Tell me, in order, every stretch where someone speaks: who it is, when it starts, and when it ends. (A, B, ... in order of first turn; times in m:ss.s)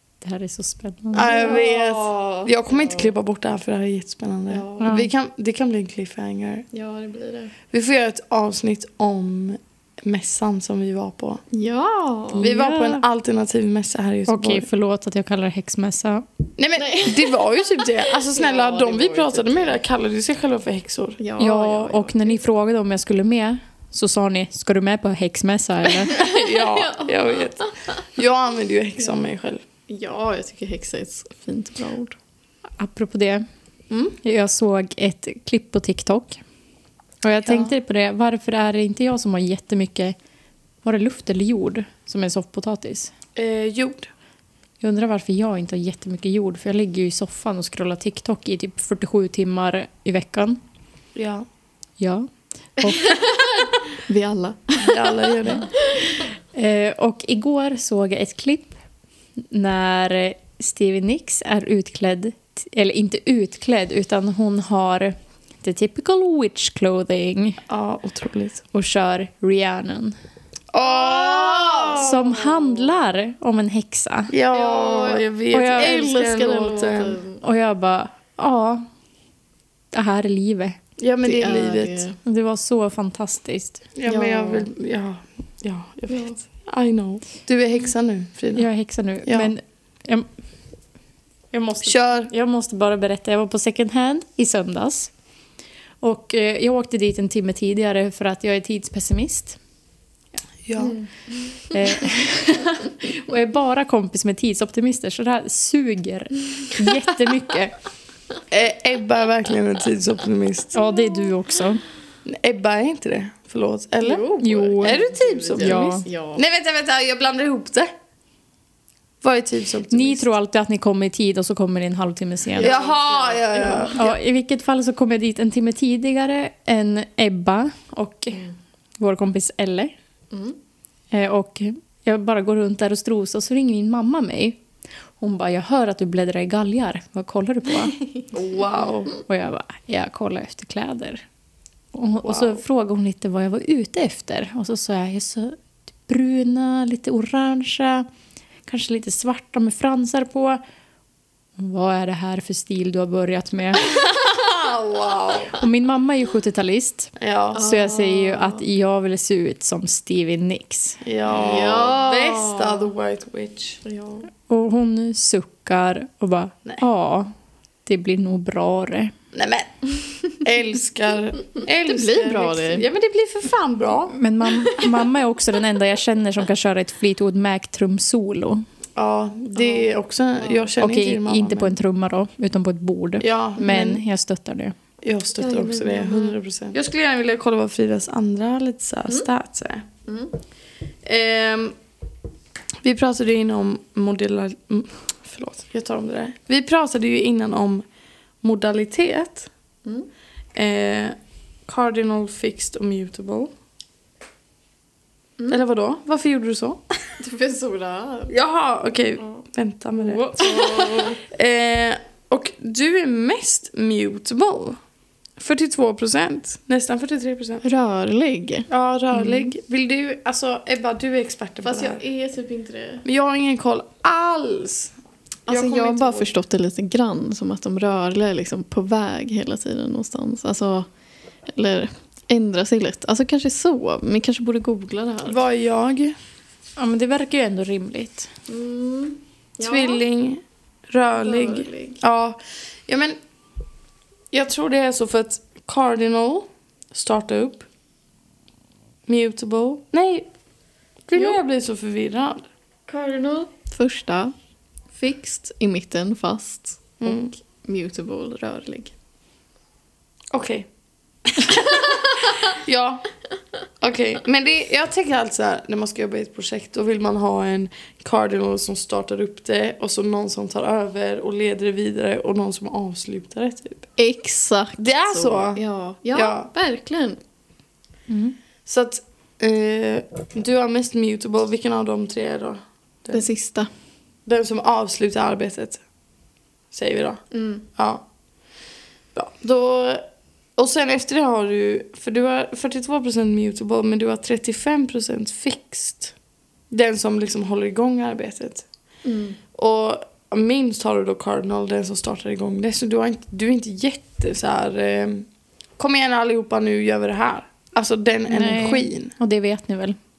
0:00.2-0:01.3 A
0:01.1-0:06.6 B
0:01.2-0:03.1 C
0:04.5-0:04.9 C
0:04.8-0:05.1 A
0:06.7-0:07.5 C
0:07.7-0:11.4 B
0:11.5-0:12.5 C
0:12.3-0:13.0 A
0:12.4-0:14.7 B
0:14.3-0:16.2 A
0:16.6-0:21.2 B
0:16.8-0:19.8 C
0:21.2-0:22.4 C
0:21.4-0:26.2 A
0:26.0-0:27.5 C
0:26.1-0:29.6 B
0:29.0-0:29.3 C
0:29.9-0:32.2 C
0:32.8-0:33.4 A
0:33.9-0:34.2 B
0:34.2-0:36.4 A
0:37.2-0:40.2 A
0:37.5-0:37.7 B
0:40.8-0:43.1 A
0:43.4-0:44.1 B
0:44.8-0:50.6 A
0:51.2-0:51.5 B
0:52.0-0:53.3 A
0:54.0-0:56.3 C
0:54.8-0:55.7 B
0:56.5-0:58.8 A
0:59.5-1:07.6 A
1:07.7-1:08.6 B
1:08.7-1:10.2 A
1:10.7-1:12.3 B
1:10.8-1:12.3 C
1:12.0-1:14.3 A
1:14.3-1:17.2 B
1:14.5-1:17.4 C
1:15.5-1:16.0 A
1:17.4-1:18.9 A
1:19.9-1:20.8 A
1:21.0-1:22.0 B
1:21.2-1:22.2 C
1:22.2-1:23.9 A
1:24.0-1:28.7 B
1:24.1-1:24.7 C
1:26.1-1:26.4 C
1:28.6-1:30.3 A
1:29.2-1:29.5 B
1:31.5-1:35.1 A
1:31.8-1:32.3 B
1:36.0-1:39.6 A
1:40.7-1:41.0 B
1:40.8-1:42.0 C
1:41.7-1:47.8 A
1:48.5-1:50.8 B
1:50.7-1:51.8 A
1:52.3-1:54.2 B
1:54.0-1:56.4 C
1:54.4-1:55.0 A
1:54.8-1:57.9 B
1:55.6-1:56.0 A
1:59.2-2:00.3 B
1:59.9-2:02.7 A
2:02.5-2:04.1 C
2:02.6-2:04.2 B
2:04.0-2:08.5 A
2:09.0-2:09.9 A
2:10.3-2:10.6 C
2:11.1-2:14.6 A
2:15.2-2:18.0 A
2:18.3-2:19.1 B
2:19.2-2:21.2 A
2:21.9-2:25.6 A
2:22.2-2:22.6 B
2:26.1-2:28.1 A
2:28.7-2:30.6 A
2:31.6-2:33.9 A
2:34.1-2:35.6 B
2:35.6-2:41.0 A
2:37.2-2:37.7 B
2:37.6-2:38.6 C
2:41.0-2:44.2 B
2:41.3-2:42.9 C
2:44.5-2:47.3 A
2:47.9-2:49.1 A
2:49.3-2:54.2 B
2:51.9-2:52.9 C
2:54.1-2:58.6 A
2:59.0-3:01.8 B
2:59.6-3:00.7 C
3:00.8-3:04.8 A
3:03.2-3:04.0 B
3:05.0-3:09.9 B
3:05.4-3:06.4 C
3:10.1-3:10.3 C
3:11.0-3:11.8 B
3:12.8-3:17.8 B
3:18.4-3:19.5 B
3:20.6-3:21.2 B
3:21.7-3:23.5 B
3:25.5-3:26.8 B
3:27.2-3:28.3 C
3:28.3-3:34.8 B
3:30.1-3:31.2 A
3:30.4-3:31.2 C
3:35.4-3:37.6 B
3:37.6-3:38.7 C
3:38.7-3:42.0 B
3:41.6-3:43.0 C
3:43.0-3:44.9 B
3:45.5-3:46.3 B
3:45.5-3:50.9 C
3:51.5-3:55.4 C
3:55.3-3:56.2 B
3:56.8-3:58.3 A
3:58.5-4:00.0 C
3:59.6-4:03.2 B
4:01.1-4:02.0 C
4:04.3-4:07.7 B
4:09.1-4:10.3 B
4:11.1-4:12.5 B
4:11.1-4:11.4 C
4:12.9-4:14.3 C
4:14.9-4:18.9 C
4:17.0-4:17.3 B
4:20.3-4:20.7 B
4:21.3-4:23.1 B
4:23.8-4:33.9 B
4:34.0-4:37.2 C
4:34.8-4:35.6 B
4:36.1-4:36.5 B
4:38.1-4:38.4 A
4:38.7-4:43.3 B
4:43.1-4:43.7 C
4:44.3-4:45.8 B
4:46.7-4:47.2 B
4:47.3-4:47.6 C
4:47.8-4:48.0 B
4:49.2-4:50.0 B
4:50.6-4:56.1 B
4:56.7-4:58.7 B
4:59.0-4:59.4 C
4:59.5-5:05.3 B
5:05.8-5:09.1 B
5:08.3-5:10.0 A